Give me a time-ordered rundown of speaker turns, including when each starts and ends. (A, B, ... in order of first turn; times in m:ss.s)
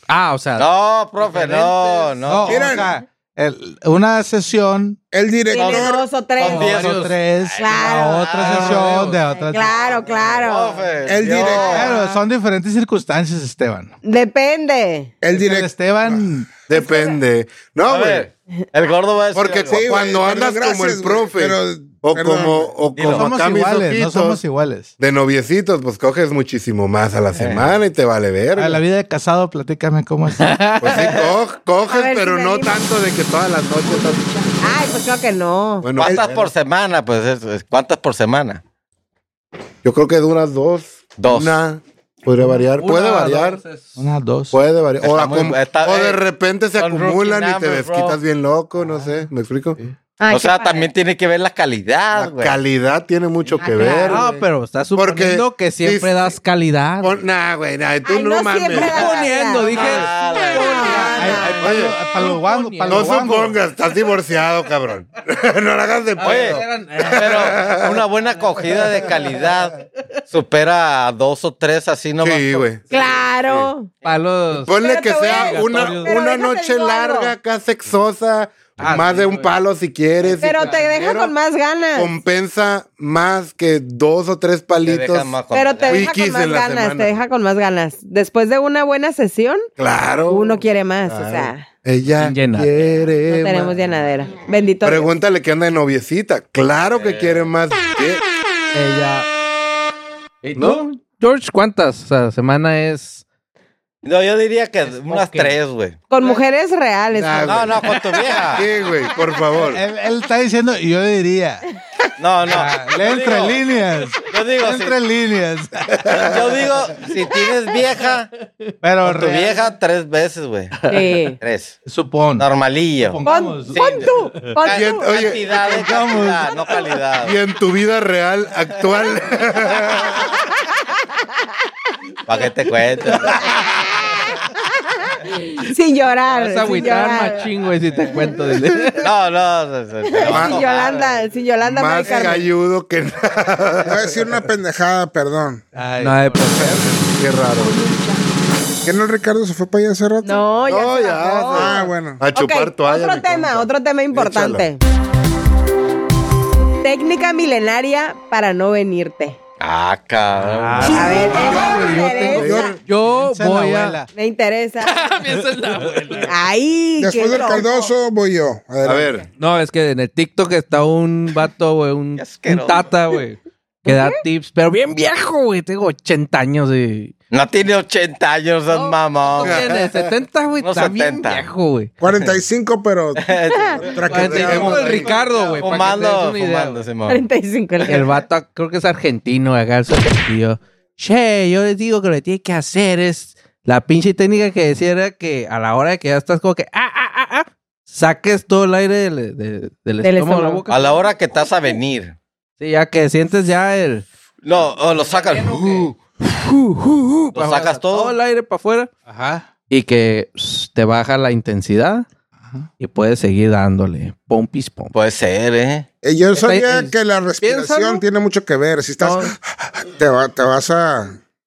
0:00.1-0:00.7 A
0:00.6-0:02.8 B
0:01.2-0:02.4 A
0:02.2-0:05.0 C
0:02.4-0:02.9 D
0:05.1-0:06.0 D
0:05.5-0:06.8 E
0:05.5-0:09.2 B
0:06.4-0:09.8 C
0:06.5-0:07.1 A
0:07.5-0:08.4 E
0:08.4-0:09.2 A
0:09.3-0:10.9 E
0:09.8-0:12.0 B
0:11.1-0:11.9 D
0:11.4-0:12.2 E
0:11.6-0:13.9 C
0:14.0-0:15.2 E
0:15.2-0:15.7 D
0:15.3-0:16.7 C
0:16.7-0:18.3 F
0:16.7-0:17.2 E
0:17.8-0:19.8 B
0:19.3-0:24.4 F
0:19.7-0:22.7 D
0:22.9-0:23.3 B
0:23.1-0:24.9 C
0:25.0-0:28.8 F
0:27.4-0:27.7 B
0:28.5-0:30.6 C
0:30.4-0:31.0 A
0:30.8-0:34.9 F
0:30.9-0:31.3 B
0:31.9-0:32.8 E
0:33.9-0:35.9 E
0:35.8-0:36.5 F
0:36.0-0:38.6 B
0:39.8-0:43.6 F
0:41.2-0:41.6 B
0:42.7-0:43.8 A
0:44.0-0:44.6 C
0:44.5-0:49.8 F
0:45.0-0:46.2 B
0:46.8-0:48.2 B
0:48.8-0:49.2 C
0:50.2-0:50.9 E
0:50.3-0:52.6 B
0:52.2-0:54.2 F
0:53.6-0:54.4 E
0:54.0-0:57.2 A
0:54.9-0:56.3 F
0:57.0-0:59.2 F
0:58.0-1:01.6 E
0:58.7-1:03.1 A
0:59.7-1:01.3 B
1:00.9-1:03.6 C
1:01.6-1:02.0 F
1:02.9-1:08.0 F
1:06.2-1:09.5 A
1:06.2-1:09.7 B
1:10.3-1:12.7 B
1:12.2-1:13.7 F
1:12.9-1:13.9 E
1:14.0-1:16.2 A
1:14.6-1:21.3 F
1:14.7-1:17.3 E
1:18.8-1:19.5 A
1:20.2-1:20.8 A
1:20.4-1:22.1 E
1:21.9-1:27.2 F
1:24.8-1:26.1 B
1:25.5-1:29.7 E
1:29.8-1:33.8 F
1:30.3-1:31.7 E
1:32.2-1:32.7 A
1:33.3-1:35.1 E
1:34.8-1:38.2 F
1:36.9-1:37.5 B
1:38.7-1:39.2 A
1:40.4-1:43.2 A
1:40.5-1:40.8 F
1:44.0-1:46.0 B
1:44.9-1:45.5 A
1:46.1-1:47.7 E
1:47.1-1:47.9 F
1:47.5-1:48.7 B
1:48.4-1:49.8 F
1:49.7-1:51.6 C
1:52.2-1:55.0 B
1:52.4-1:56.7 C
1:56.2-1:58.3 B
1:58.8-1:59.7 C
1:59.0-2:00.8 B
2:00.9-2:01.4 E
2:01.4-2:01.8 B
2:01.8-2:02.5 C
2:02.4-2:07.4 B
2:03.0-2:04.5 C
2:03.2-2:05.1 E
2:04.7-2:06.5 F
2:07.2-2:10.2 F
2:12.3-2:13.5 B
2:13.3-2:14.2 E
2:15.2-2:17.4 E
2:16.3-2:19.1 A
2:19.0-2:21.1 B
2:20.0-2:22.5 E
2:20.2-2:20.6 F
2:21.6-2:24.1 F
2:23.8-2:25.6 D
2:25.7-2:27.0 C
2:26.0-2:27.1 A
2:26.9-2:27.8 F
2:27.6-2:28.2 E
2:28.8-2:30.5 D
2:30.2-2:34.8 E
2:30.6-2:34.6 F
2:31.5-2:32.2 D
2:36.8-2:39.4 E
2:39.6-2:41.3 B
2:40.4-2:44.0 A
2:40.8-2:42.8 E
2:41.5-2:42.8 F
2:42.9-2:44.1 C
2:44.1-2:45.1 E
2:44.8-2:46.3 A
2:46.3-2:47.9 E
2:47.0-2:49.1 D
2:48.8-2:49.3 F
2:49.4-2:57.1 A
2:52.2-2:52.9 B
2:53.8-2:54.2 E
2:57.3-2:59.7 B
2:59.4-3:01.9 A
2:59.4-3:00.1 F
3:00.6-3:01.5 B
3:02.0-3:04.8 D
3:02.1-3:02.4 B
3:03.2-3:04.5 B
3:03.5-3:03.8 E
3:04.0-3:05.2 F
3:04.0-3:06.8 A
3:04.8-3:05.8 C
3:05.6-3:07.2 B
3:07.1-3:08.2 E
3:07.8-3:20.9 A
3:20.0-3:20.6 E
3:20.7-3:22.2 B
3:22.6-3:24.0 A
3:24.4-3:25.9 B
3:25.0-3:29.0 A
3:27.3-3:28.1 B
3:29.1-3:29.4 C
3:29.7-3:32.1 A
3:32.8-3:34.9 A
3:34.9-3:35.8 B
3:36.0-3:41.2 D
3:36.3-3:38.0 A
3:39.0-3:39.3 A